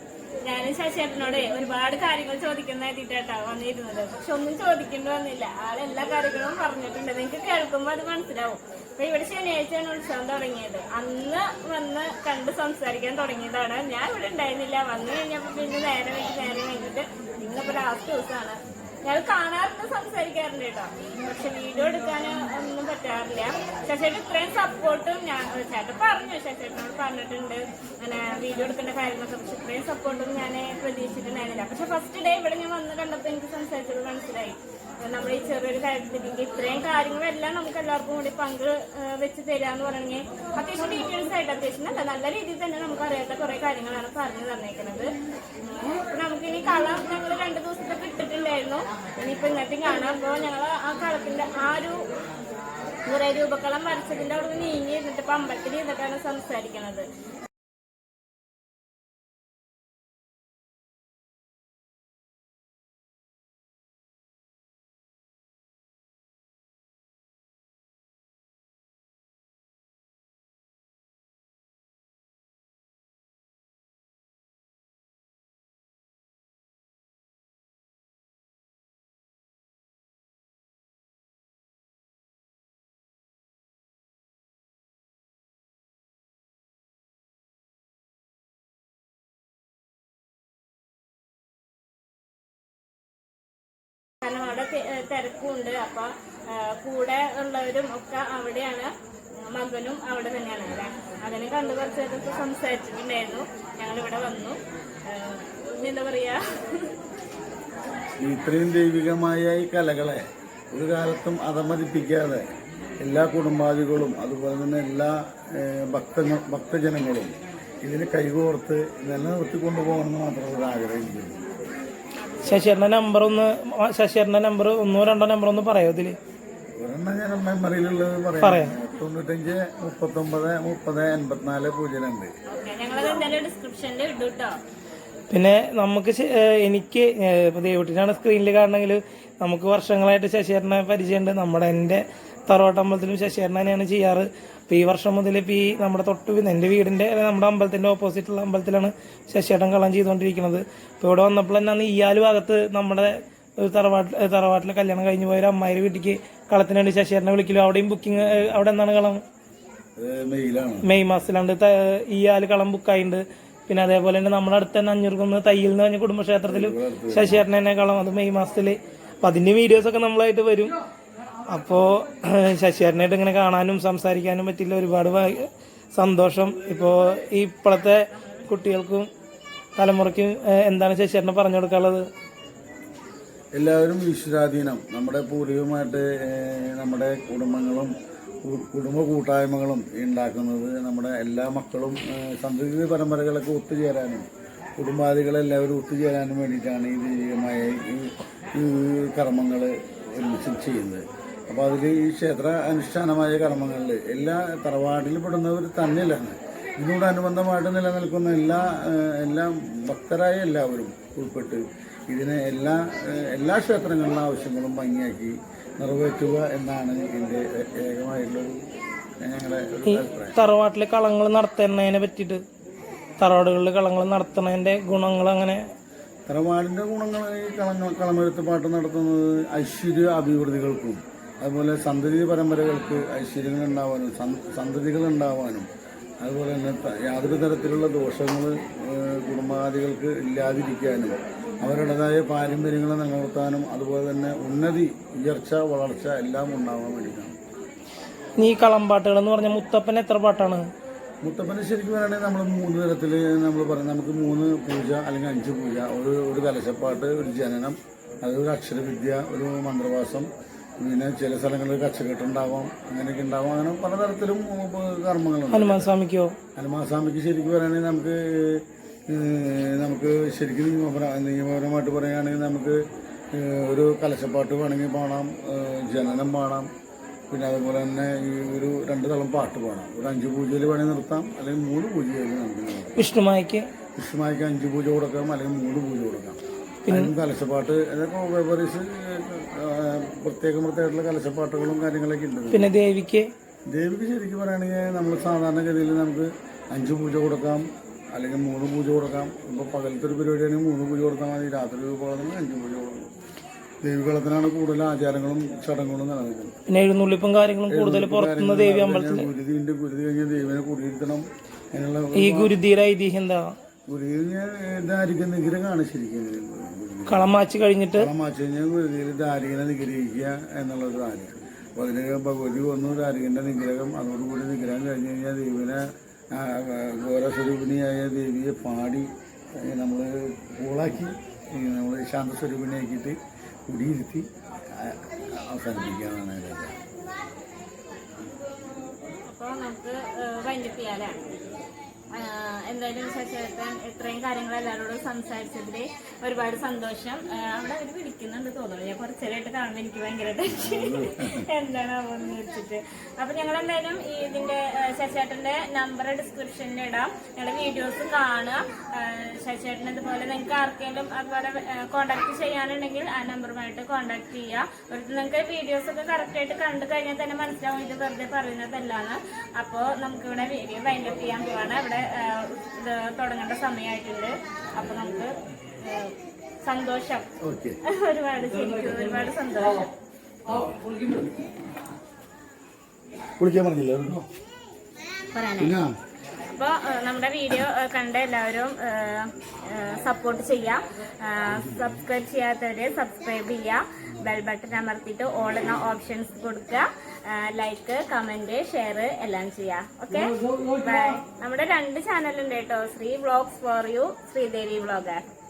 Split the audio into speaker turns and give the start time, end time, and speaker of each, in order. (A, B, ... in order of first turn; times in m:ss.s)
0:00.4-0:45.1 A
0:45.6-0:52.0 A
0:53.1-0:57.1 A
1:34.2-1:38.9 A
1:39.4-1:44.6 A
1:45.1-1:47.0 A
1:48.2-1:52.4 B
1:53.0-2:01.5 B
2:02.2-2:02.8 A
2:02.4-2:06.2 C
2:06.8-2:12.3 B
2:08.4-2:08.8 C
2:12.5-2:14.6 A
2:15.3-2:39.2 C
2:40.0-2:40.9 B
2:40.8-2:50.7 C
2:46.5-2:47.5 B
2:51.5-2:59.1 C
2:58.1-2:58.5 A
2:59.8-3:02.1 C
3:03.6-3:07.9 B
3:08.4-3:14.3 B
3:14.8-3:38.6 B
3:39.2-3:40.5 B
3:39.9-3:42.4 C
3:43.2-3:45.6 C
3:46.3-3:55.7 B
3:56.2-4:07.4 B
4:08.4-4:10.6 C
4:11.2-4:20.3 B
4:20.8-4:25.9 B
4:25.5-4:26.3 C
4:26.6-4:32.8 B
4:33.3-4:36.7 B
4:37.3-4:43.0 B
4:43.0-4:43.7 C
4:44.0-4:52.7 B
4:46.9-4:47.1 C
4:52.5-4:53.3 C
4:53.7-5:03.1 B
5:03.8-5:06.6 B
5:06.7-5:09.3 C
5:07.7-5:12.6 B
5:12.2-5:13.5 C
5:13.9-5:17.3 B
5:17.1-5:18.1 C
5:18.0-5:29.1 B
5:29.6-5:33.2 B
5:33.7-5:36.8 B
5:39.3-5:41.2 A
5:42.2-6:16.1 A
5:50.5-5:51.5 B
6:16.6-6:17.3 A
6:17.4-6:17.8 B
6:17.8-6:19.9 A
6:23.4-6:24.3 B
6:25.3-6:25.8 A
6:25.6-6:25.9 B
6:26.5-6:45.2 A